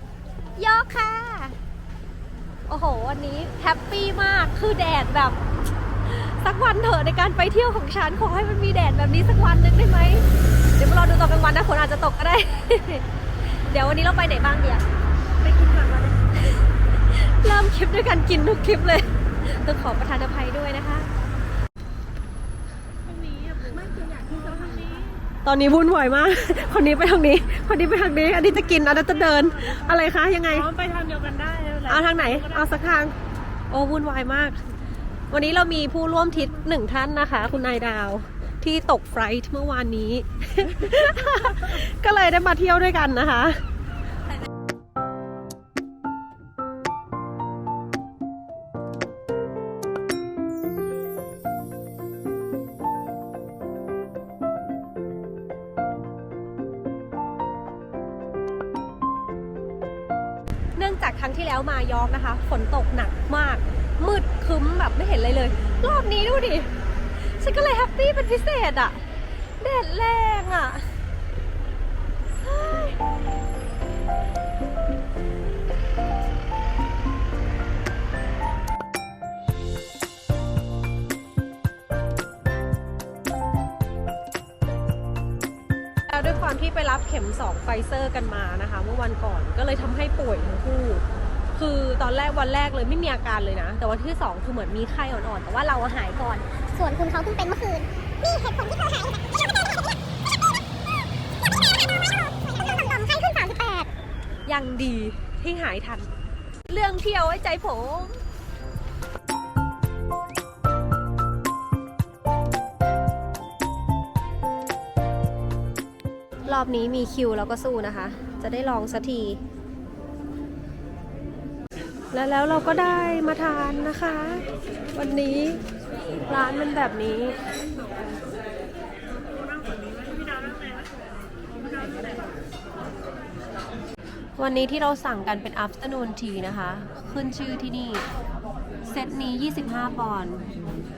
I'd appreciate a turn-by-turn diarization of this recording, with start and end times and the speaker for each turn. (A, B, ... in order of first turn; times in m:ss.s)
0:00.6-0:01.6 A
0:02.7-0:05.4 A
0:06.0-0:14.8 A
0:15.4-0:21.1 A
0:23.1-0:25.2 B
0:25.4-0:30.7 A
0:30.7-0:31.9 B
0:31.8-0:33.2 A
0:33.7-0:34.6 A
0:35.3-0:43.6 A
1:00.8-1:11.0 A
1:12.4-1:13.0 A
1:26.1-1:39.0 A
1:37.0-1:39.5 C
1:41.7-1:43.9 C
1:42.9-1:43.8 A
1:44.5-1:46.1 A
1:46.7-1:48.2 A
1:56.5-1:59.4 A
2:02.1-2:05.6 A
2:06.3-2:07.4 A
2:09.4-2:11.0 B
2:11.7-2:12.2 B
2:14.4-2:18.1 A
2:18.8-2:20.5 A